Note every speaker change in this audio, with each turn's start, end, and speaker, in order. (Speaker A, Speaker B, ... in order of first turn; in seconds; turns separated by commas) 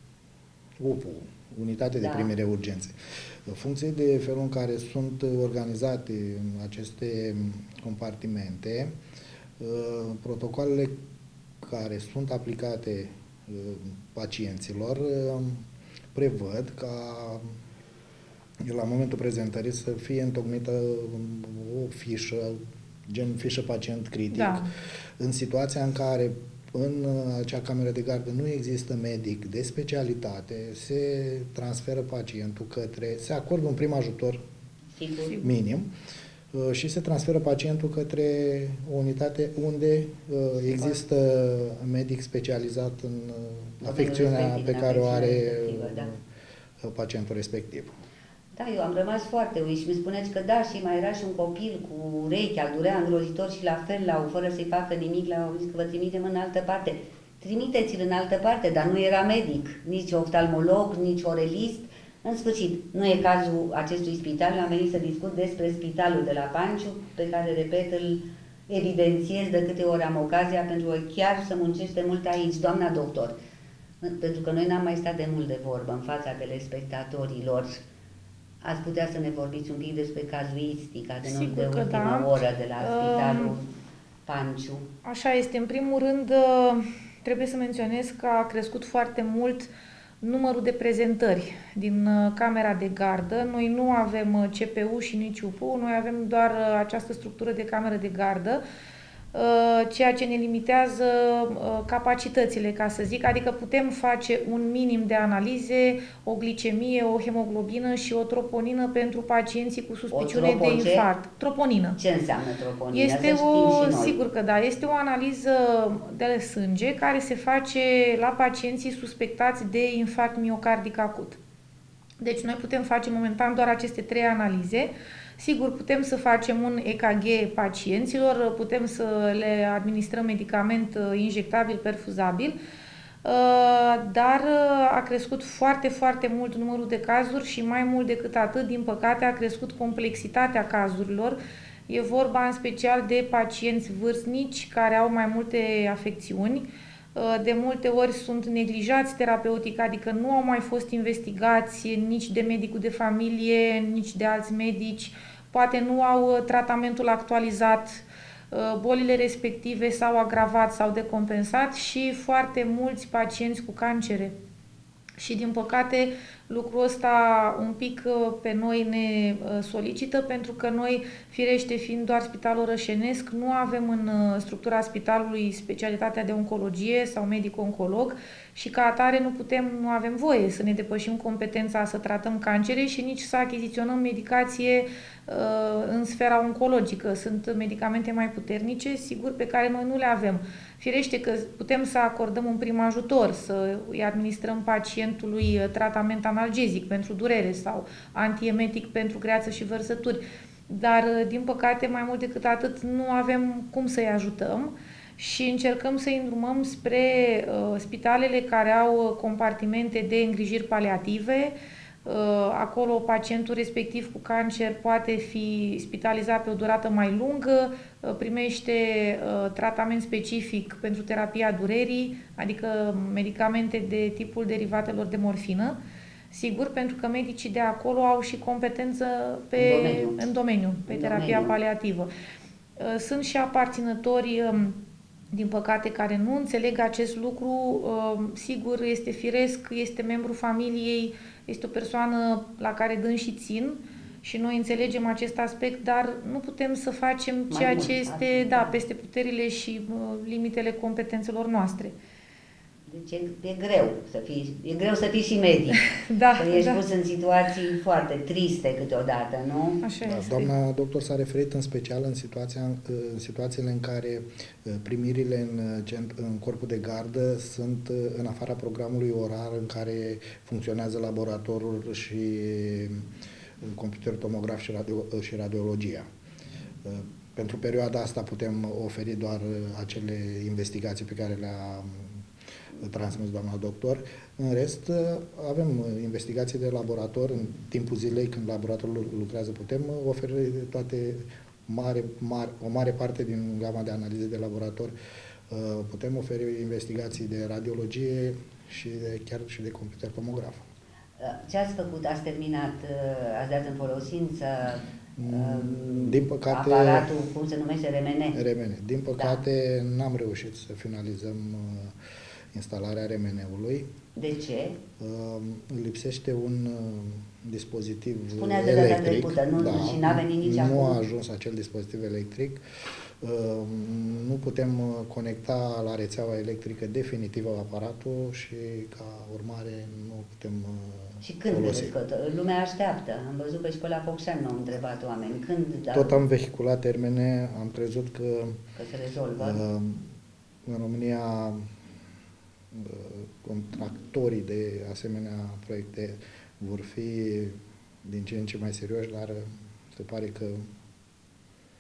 Speaker A: 0.8-8.9, Speaker B: 2.0-2.3, Speaker A: 9.6-11.0, Speaker A: 11.6-17.6, Speaker A: 18.6-24.7, Speaker C: 24.3-24.7, Speaker A: 25.2-34.4, Speaker B: 35.0-35.4, Speaker A: 35.4-35.9, Speaker A: 36.5-46.2, Speaker B: 40.6-41.0, Speaker B: 43.8-46.1, Speaker A: 46.8-48.0, Speaker B: 48.5-73.4, Speaker B: 74.0-77.8, Speaker B: 78.6-83.7, Speaker C: 81.2-83.5, Speaker B: 84.3-84.9, Speaker C: 85.0-89.7, Speaker C: 90.2-98.6, Speaker C: 99.3-112.0, Speaker B: 110.1-111.1, Speaker B: 112.0-114.2, Speaker C: 112.9-121.4, Speaker C: 122.2-132.6, Speaker C: 133.2-141.4, Speaker C: 141.9-164.3, Speaker C: 165.2-211.5, Speaker C: 212.1-225.8, Speaker C: 226.3-232.1, Speaker B: 229.6-230.3, Speaker B: 230.9-231.6, Speaker C: 232.8-234.8, Speaker C: 235.3-251.9, Speaker B: 247.5-248.8, Speaker B: 252.9-259.8, Speaker C: 255.9-256.8, Speaker C: 259.8-260.5, Speaker A: 260.1-273.1, Speaker A: 273.6-276.1, Speaker A: 276.8-282.2, Speaker A: 282.8-294.9, Speaker A: 295.5-300.6, Speaker B: 301.2-308.4, Speaker A: 305.2-307.1, Speaker A: 308.3-312.0, Speaker B: 309.2-309.4, Speaker A: 312.5-313.9, Speaker B: 314.2-314.8, Speaker A: 315.0-331.9, Speaker B: 318.4-321.0, Speaker B: 331.2-336.2, Speaker A: 335.9-338.6, Speaker B: 338.8-339.6, Speaker A: 339.4-340.1, Speaker A: 340.7-341.7, Speaker A: 342.7-350.7